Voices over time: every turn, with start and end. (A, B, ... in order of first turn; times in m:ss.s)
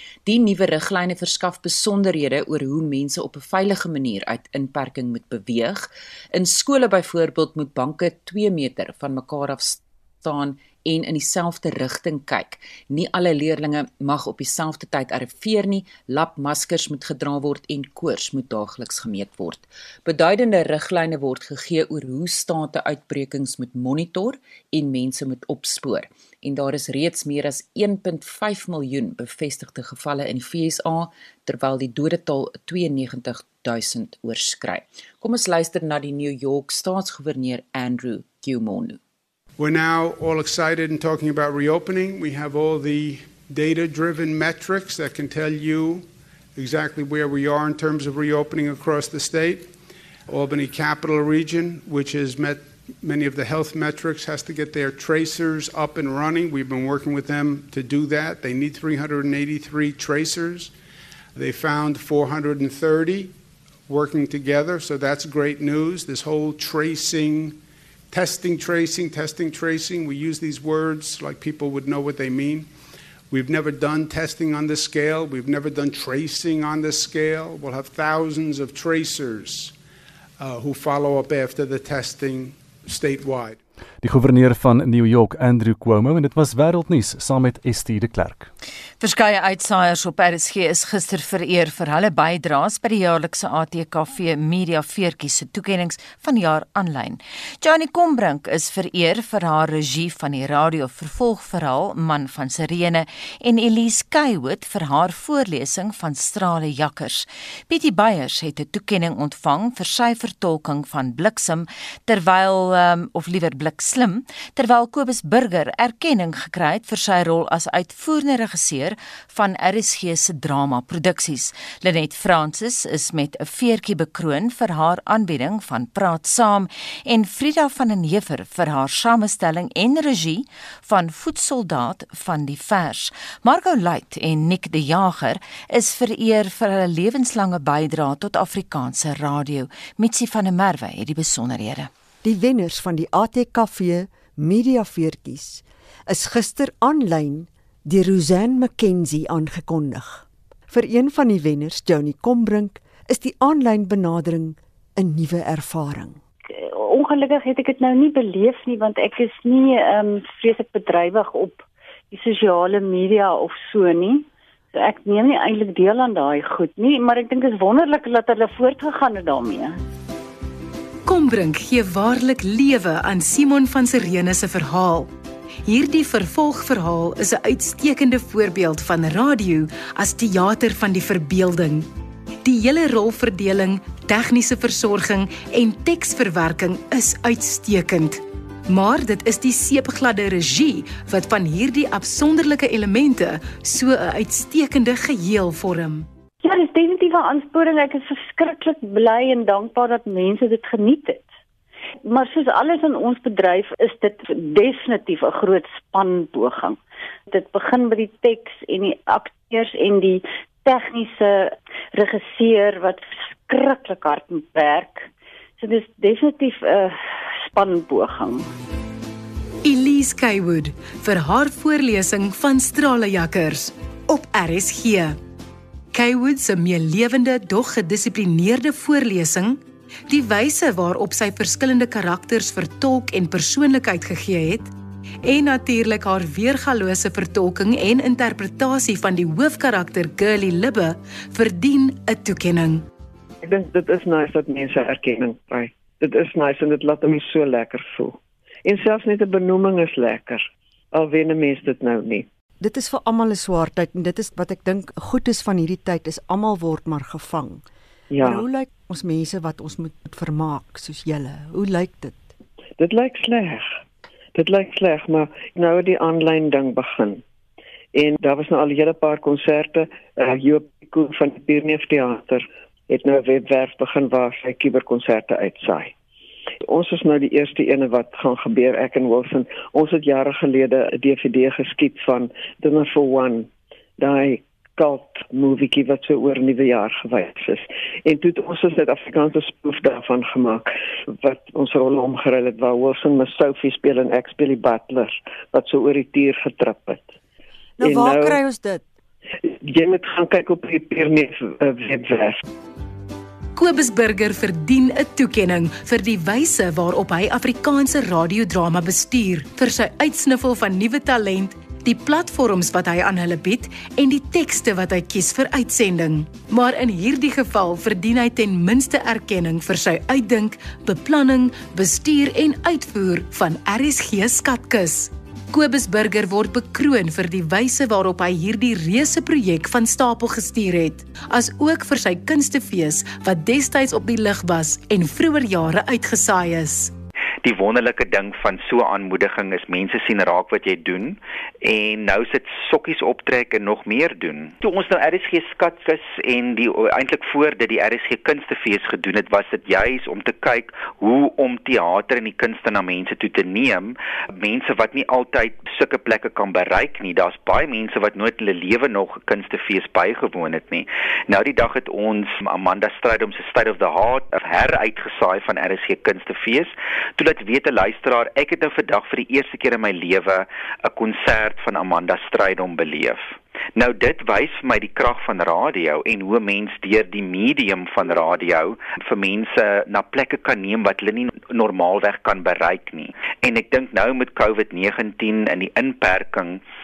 0:00.2-0:39.0 A
0:39.6-0:49.7 B
0:50.3-1:00.7 B
1:01.4-1:03.3 B
1:03.9-1:07.6 B
1:08.1-1:12.7 B
1:13.3-1:19.7 B
1:20.4-1:23.6 B
1:24.0-1:28.5 C
1:29.0-2:21.9 D
2:22.2-2:36.2 E
2:36.5-2:49.8 F
2:51.0-2:55.1 G
2:55.7-3:01.9 G
3:02.4-3:16.1 G
3:16.4-3:21.3 F
3:22.1-3:26.8 F
3:27.3-3:35.1 F
3:35.6-3:38.4 F
3:39.6-3:45.2 G
3:45.9-3:54.7 G
3:55.2-4:02.8 G
4:03.4-4:12.3 H
4:12.6-4:17.7 E
4:18.1-4:18.5 H
4:18.2-4:22.3 E
4:22.8-4:23.8 H
4:24.4-4:27.2 H
4:27.9-4:36.0 H
4:36.7-4:57.1 H
4:57.8-4:58.8 E
4:57.8-4:58.4 H
4:59.4-5:02.4 H
5:03.6-5:36.9 G
5:37.4-6:26.7 I